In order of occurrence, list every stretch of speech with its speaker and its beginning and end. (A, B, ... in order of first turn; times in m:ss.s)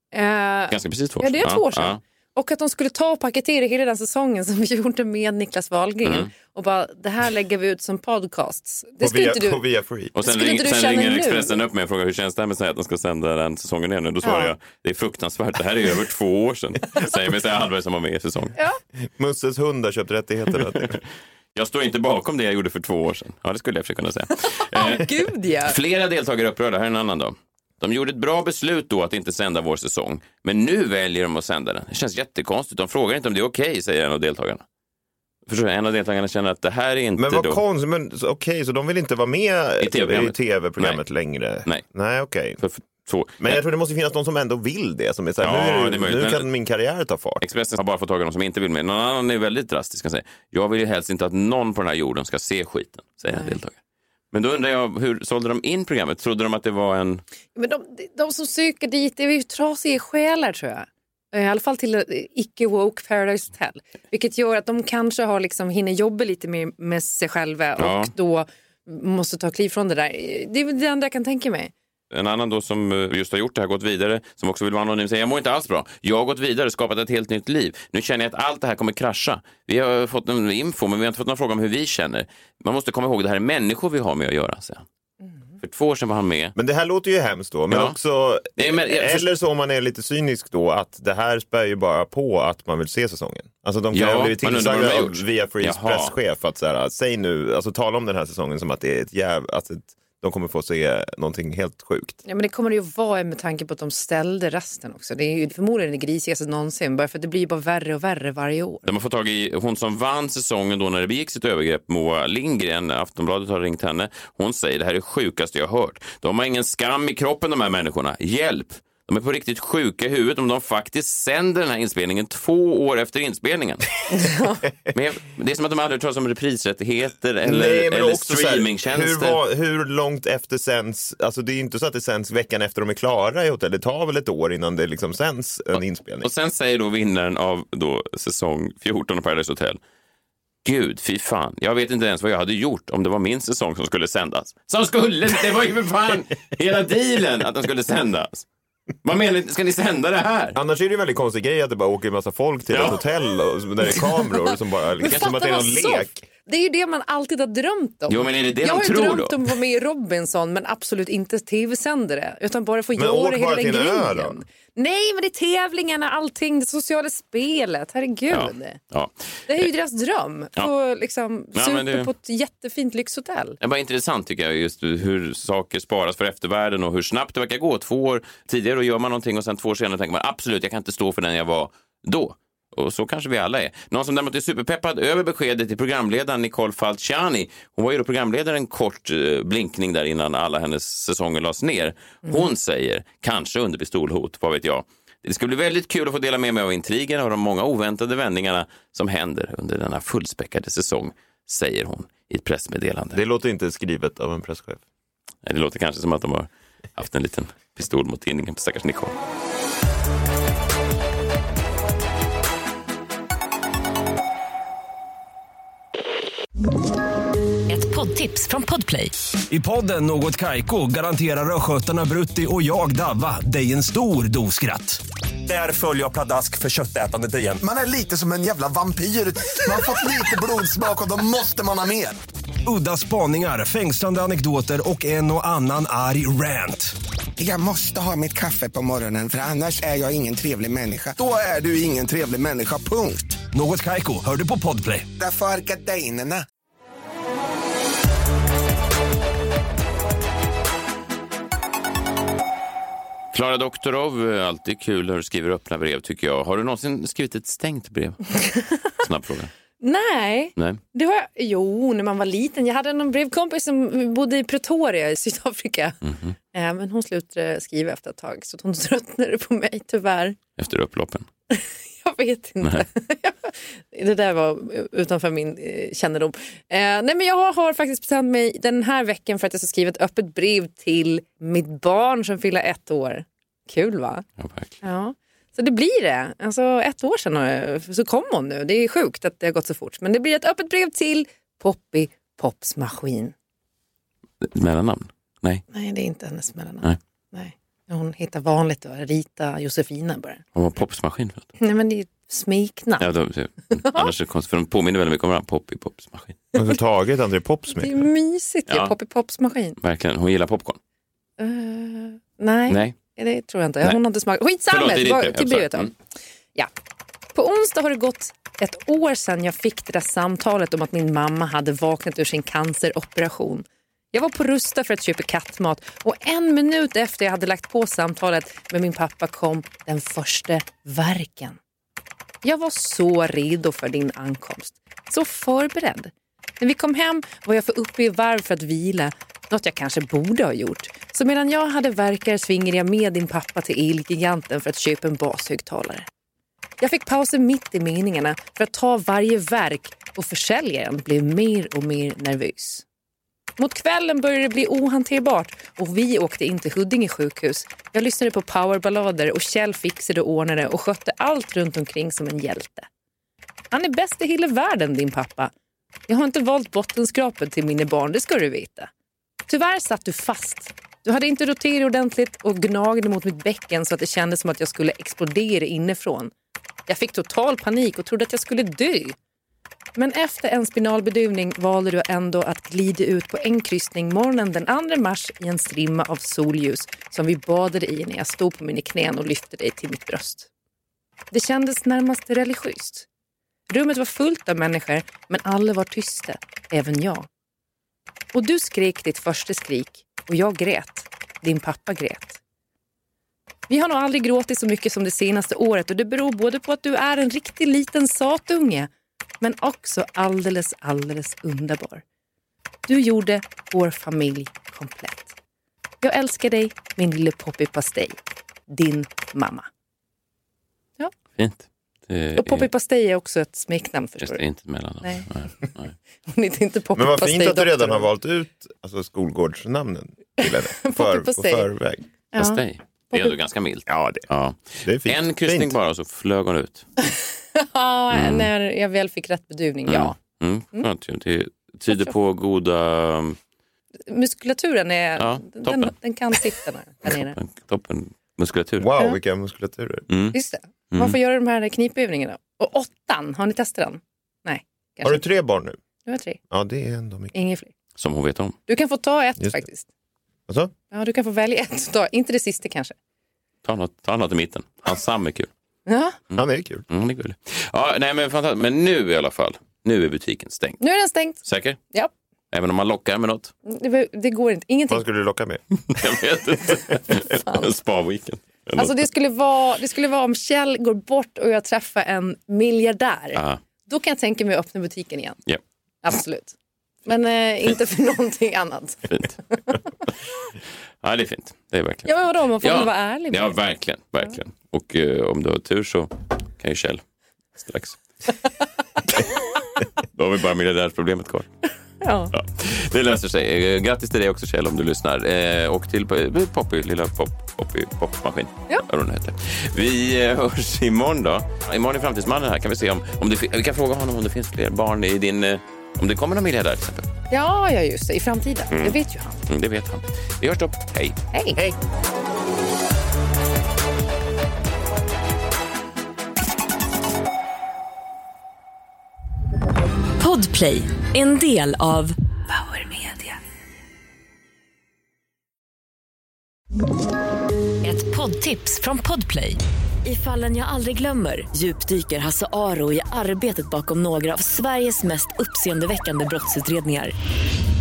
0:00.1-0:09.6 A
0:00.7-0:02.0 B
0:06.0-0:06.3 B
0:09.0-0:10.1 C
0:10.2-0:18.6 B
0:10.2-0:11.6 A
0:14.2-0:14.5 A
0:19.1-0:21.0 C
0:21.6-0:25.1 B
0:24.7-0:25.8 A
0:25.6-0:34.6 B
0:35.5-0:37.6 B
0:37.2-0:42.6 C
0:39.8-0:41.0 B
0:42.6-0:43.6 B
0:43.4-0:47.4 C
0:45.4-0:46.5 B
0:47.4-0:53.8 B
0:53.3-0:53.6 A
0:54.3-0:57.2 B
0:57.6-1:11.7 A
1:07.8-1:08.1 B
1:12.1-1:24.8 B
1:25.6-1:26.6 B
1:26.6-1:42.2 C
1:27.7-1:28.0 B
1:28.6-1:29.3 B
1:33.9-1:36.1 B
1:42.3-1:48.9 A
1:48.8-2:03.8 B
2:04.1-2:04.6 A
2:04.9-2:09.4 B
2:07.4-2:16.3 C
2:15.8-2:19.8 B
2:20.6-2:28.5 B
2:29.0-2:30.6 B
2:30.6-2:36.2 C
2:32.7-2:33.0 B
2:35.0-2:48.8 A
2:38.1-2:39.4 B
2:43.0-2:44.4 C
2:48.3-2:49.7 B
2:49.5-2:53.6 A
2:51.5-2:52.1 B
2:53.6-3:23.2 B
3:23.1-3:24.8 C
3:25.4-3:29.2 B
3:37.7-3:39.1 D
3:39.5-3:48.0 E
3:47.6-3:48.8 F
3:48.7-3:50.5 E
3:49.7-3:52.1 F
3:52.7-3:56.9 E
3:57.4-4:03.4 F
4:03.5-4:05.1 E
4:05.2-4:06.4 F
4:13.3-4:18.2 B
4:18.4-4:18.8 A
4:19.0-4:19.5 B
4:19.8-4:26.0 A
4:20.6-4:20.8 B
4:26.0-4:26.4 B
4:26.5-4:30.4 A
4:30.6-4:31.3 B
4:31.5-4:44.2 A
4:44.4-4:44.7 B
4:44.8-4:53.3 A
4:54.4-4:55.6 B
4:55.7-5:00.4 A
5:00.6-5:01.5 B
5:01.6-5:03.0 A
5:03.0-5:06.4 B
5:03.9-5:04.1 A
5:06.5-5:08.1 C
5:07.8-5:09.8 A
5:08.7-5:08.9 B
5:09.8-5:10.8 B
5:11.4-5:16.0 A
5:12.7-5:13.0 B
5:14.7-5:15.9 B
5:17.4-5:31.6 A
5:32.4-5:46.1 A
5:46.8-5:52.8 A
5:53.6-6:02.9 A
6:03.7-6:05.5 A
6:06.1-6:08.9 A
6:09.5-6:16.3 A
6:16.9-6:19.2 A
6:20.0-6:30.5 A
6:31.3-6:33.1 A
6:33.7-6:37.3 A
6:38.3-6:42.4 A
6:43.7-6:52.0 A
6:52.9-6:55.3 A
6:56.0-6:59.7 A
7:01.4-7:02.7 B
7:02.4-7:04.4 A
7:04.2-7:06.0 B
7:06.3-7:08.1 A
7:07.0-7:12.0 C
7:10.4-7:11.7 A
7:12.3-7:13.4 A
7:12.4-7:16.8 B
7:13.9-7:14.3 C
7:14.8-7:15.8 C
7:17.1-7:20.2 A
7:18.1-7:18.5 B
7:19.9-7:23.4 B
7:24.1-7:27.4 A
7:25.2-7:25.9 B
7:27.1-7:28.9 B
7:28.8-7:30.1 C
7:30.1-7:30.4 B
7:30.3-7:35.2 A
7:30.9-7:31.2 B
7:35.0-7:35.8 C
7:36.0-7:36.4 A
7:36.5-7:37.3 C
7:37.3-7:37.7 A
7:38.0-7:38.6 B
7:38.7-7:39.9 A
7:39.4-7:39.7 C
7:40.9-7:43.0 A
7:43.6-7:45.5 B
7:45.9-7:46.2 A
7:46.3-7:50.8 B
7:46.4-7:46.8 C
7:50.8-7:52.1 A
7:51.4-7:51.8 B
7:52.5-7:53.5 B
7:53.7-7:55.0 A
7:54.9-7:55.6 C
7:55.9-7:58.9 B
7:57.3-7:57.7 A
7:58.8-8:05.4 A
8:03.3-8:03.6 B
8:06.0-8:09.8 A
8:11.0-8:17.0 B
8:12.1-8:13.6 A
8:17.6-8:18.0 B
8:20.2-8:21.5 B
8:22.0-8:22.3 A
8:22.3-8:37.1 B
8:37.3-8:39.4 A
8:38.7-8:41.2 B
8:41.3-8:41.6 A
8:50.2-8:53.4 D
8:57.8-9:07.1 D